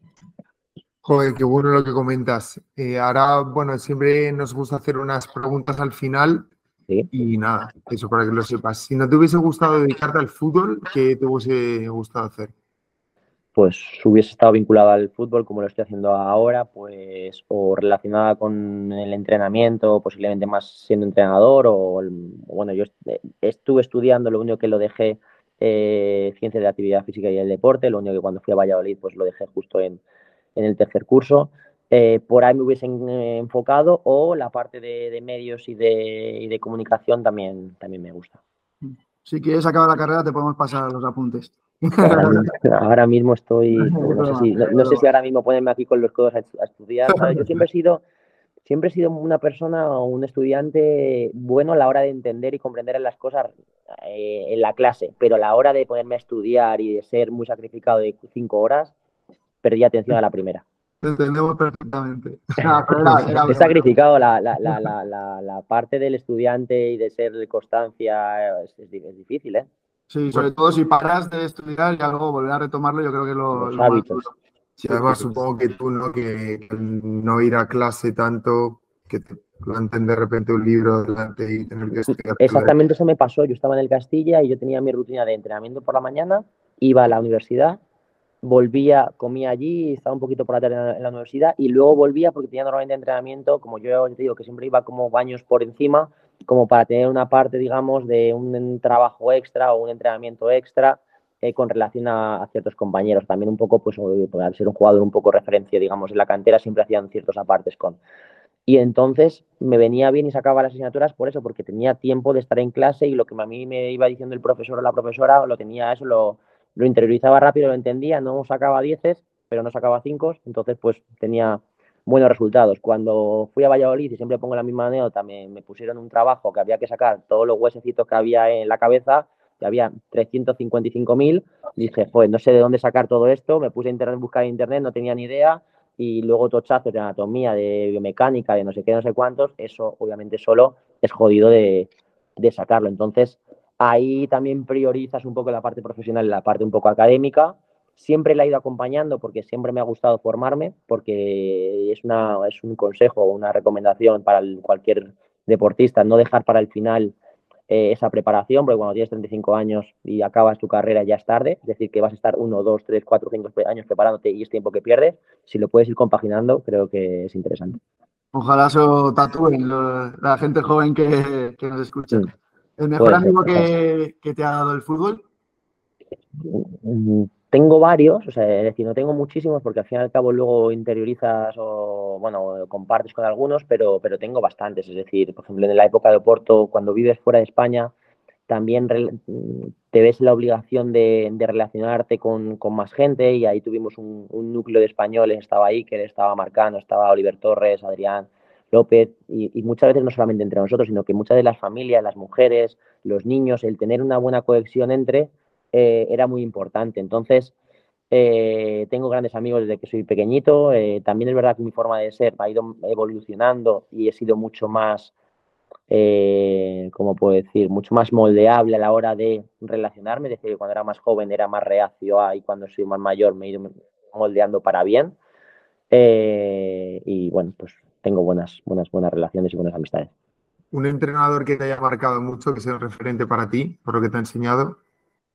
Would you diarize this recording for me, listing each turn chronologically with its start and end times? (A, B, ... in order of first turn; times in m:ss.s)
0:01.0-0:06.5 A
0:07.1-0:12.5 A
0:13.6-0:30.0 B
0:30.6-0:38.4 B
0:38.8-0:42.5 C
0:42.0-0:48.0 B
0:43.8-0:45.0 C
0:48.6-0:58.9 B
0:59.6-1:00.6 B
1:01.0-1:03.8 C
1:03.4-1:09.7 B
1:10.1-1:15.4 C
1:13.5-1:14.2 B
1:14.9-1:22.7 A
1:22.4-1:27.8 B
1:28.4-1:48.0 B
1:48.7-2:37.2 B
2:37.7-2:47.8 B
2:48.3-2:52.3 C
2:52.8-2:55.2 C
2:53.0-2:53.7 B
2:56.4-3:07.9 B
3:08.5-3:27.5 B
3:28.1-3:35.1 B
3:35.9-3:45.2 B
3:45.9-3:50.1 B
3:50.7-3:54.8 A